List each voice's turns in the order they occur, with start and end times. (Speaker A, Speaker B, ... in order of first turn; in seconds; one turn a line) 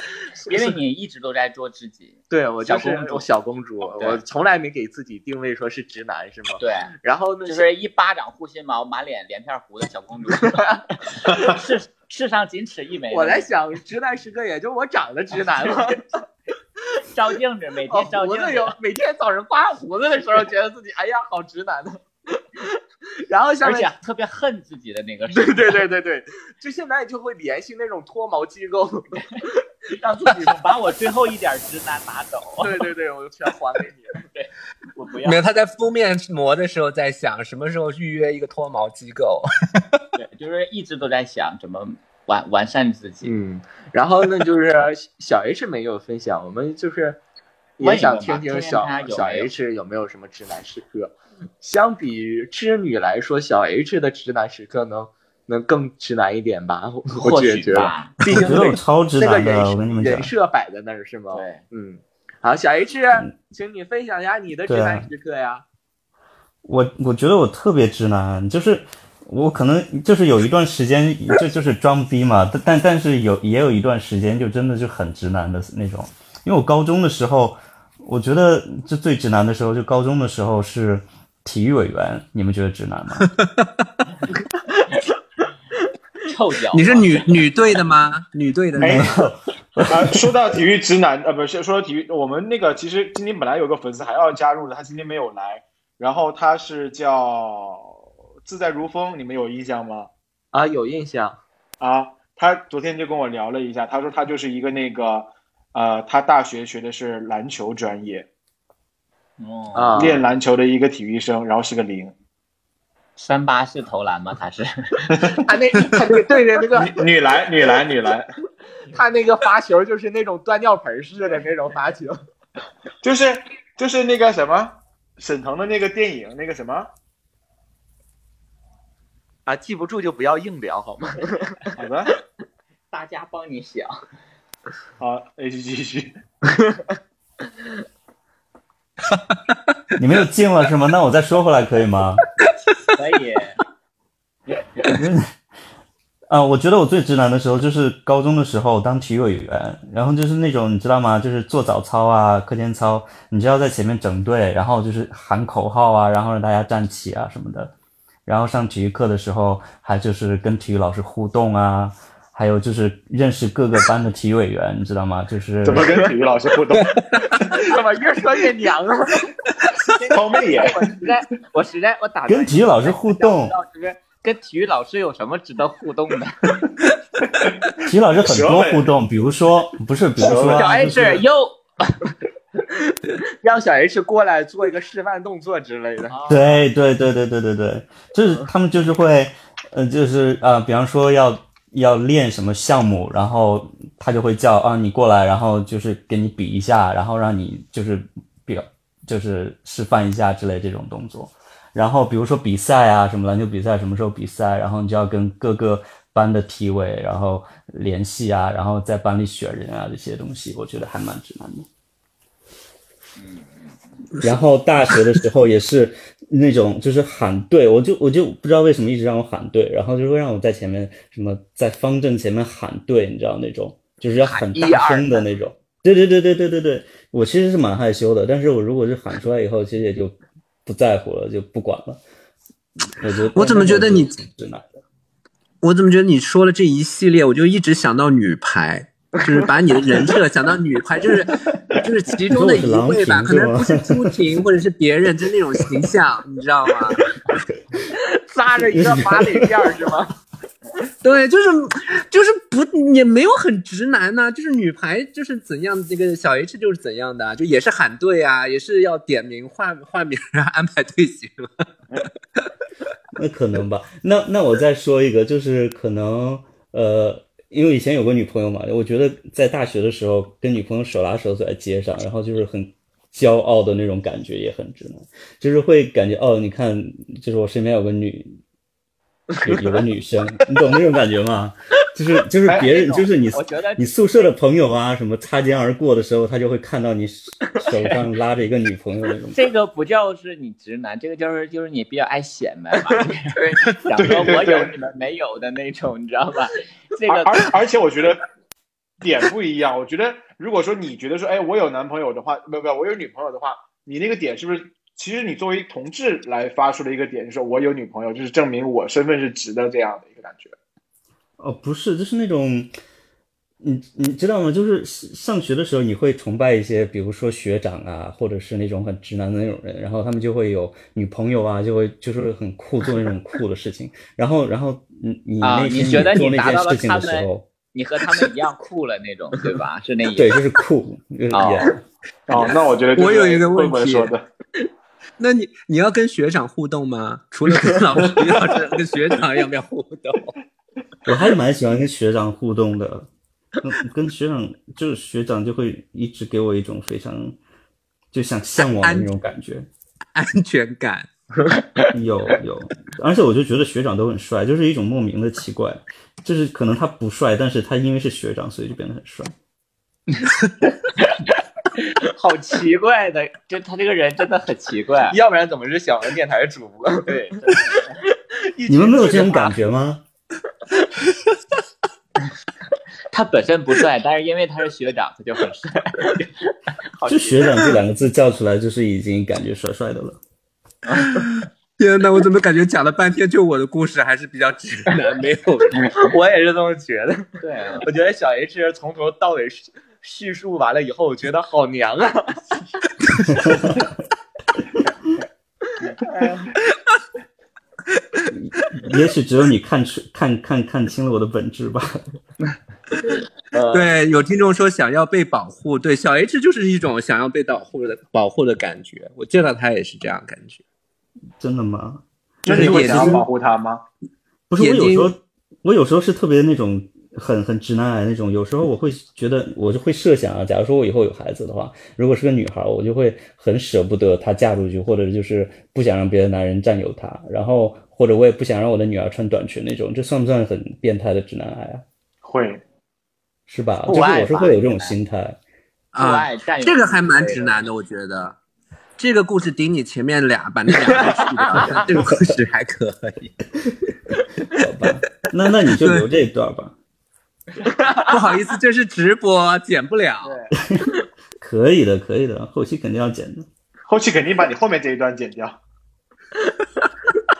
Speaker A: 0.4-3.2
Speaker B: 2.3-7.6
Speaker A: 3.9-4.2
Speaker A: 6.6-6.9
Speaker A: 7.5-13.5
Speaker B: 10.4-10.8
Speaker B: 13.1-16.0
Speaker A: 17.1-18.7
Speaker B: 17.9-23.9
Speaker A: 23.6-25.8
Speaker B: 25.3-30.6
Speaker A: 30.0-32.8
Speaker B: 32.6-34.2
Speaker A: 34.3-35.5
Speaker C: 35.2-39.5
Speaker A: 40.1-43.3
Speaker B: 43.2-47.2
Speaker B: 47.8-65.6
Speaker A: 47.8-49.5
Speaker A: 57.2-58.1
Speaker D: 58.3-60.3
Speaker A: 61.3-61.6
Speaker D: 64.7-65.1
Speaker D: 66.6-83.3
Speaker A: 86.2-87.6
Speaker C: 86.7-89.1
Speaker E: 88.8-89.1
Speaker D: 88.8-90.3
Speaker E: 89.9-100.1
Speaker B: 100.5-101.4
Speaker E: 101.8-108.3
Speaker A: 109.4-110.1
Speaker B: 109.7-110.2
Speaker E: 110.0-112.1
Speaker A: 113.2-114.7
Speaker E: 115.1-115.5
Speaker B: 115.4-117.0
Speaker E: 116.7-118.3
Speaker B: 118.9-122.2
Speaker E: 123.0-126.9
Speaker B: 129.4-131.6
Speaker E: 131.8-132.1
Speaker A: 132.9-134.0
Speaker E: 135.0-136.2
Speaker B: 136.5-136.8
Speaker D: 140.0-142.2
Speaker A: 142.9-143.6
Speaker D: 144.9-145.2
Speaker D: 146.3-157.7
Speaker D: 158.2-166.0
Speaker E: 165.6-167.4
Speaker B: 167.5-169.3
Speaker A: 169.9-176.4
Speaker E: 170.1-171.0
Speaker D: 172.3-173.5
Speaker D: 177.8-181.2
Speaker E: 178.2-178.9
Speaker E: 180.2-180.7
Speaker A: 180.5-181.9
Speaker B: 183.4-186.2
Speaker A: 186.1-186.6
Speaker D: 186.3-211.7
Speaker A: 213.2-213.8
Speaker D: 214.2-232.0
Speaker A: 224.2-225.2
Speaker D: 232.9-234.8
Speaker C: 233.3-234.2
Speaker C: 235.6-247.0
Speaker D: 242.3-244.2
Speaker B: 247.9-250.1
Speaker D: 248.6-249.7
Speaker C: 251.0-261.5
Speaker D: 263.1-278.4
Speaker D: 279.4-289.4
Speaker A: 282.5-283.8
Speaker A: 289.3-297.5
Speaker E: 294.0-294.7
Speaker E: 297.1-298.2
Speaker E: 299.0-310.5
Speaker D: 311.4-312.7
Speaker D: 313.6-327.5
Speaker A: 325.4-330.3
Speaker D: 330.2-331.8
Speaker A: 331.3-331.7
Speaker E: 332.3-334.2
Speaker C: 332.9-334.1
Speaker C: 335.2-340.3
Speaker D: 341.1-343.1
Speaker D: 343.6-347.4
Speaker D: 348.1-349.7
Speaker C: 348.6-349.1
Speaker C: 350.1-351.1
Speaker B: 351.5-351.9
Speaker D: 351.9-359.3
Speaker A: 362.1-365.2
Speaker B: 365.1-367.2
Speaker A: 367.1-367.9
Speaker B: 368.5-369.5
Speaker D: 368.7-370.0
Speaker A: 373.1-376.2
Speaker A: 377.0-377.4
Speaker D: 377.1-380.2
Speaker C: 381.8-385.9
Speaker B: 385.9-387.3
Speaker A: 387.4-387.9
Speaker B: 387.8-392.4
Speaker D: 393.3-393.8
Speaker B: 396.0-396.4
Speaker D: 398.3-402.0
Speaker B: 403.5-403.9
Speaker C: 403.7-410.6
Speaker D: 411.4-413.2
Speaker E: 412.4-413.8
Speaker C: 412.5-413.3
Speaker D: 414.5-431.8
Speaker C: 414.6-415.1
Speaker E: 432.2-432.6
Speaker D: 433.5-435.4
Speaker A: 433.9-434.9
Speaker C: 435.9-438.4
Speaker A: 435.9-437.6
Speaker C: 439.0-443.3
Speaker B: 440.8-441.8
Speaker D: 444.6-446.7
Speaker C: 445.8-446.1
Speaker B: 447.6-448.3
Speaker C: 448.1-450.4
Speaker D: 450.7-453.5
Speaker E: 453.9-455.6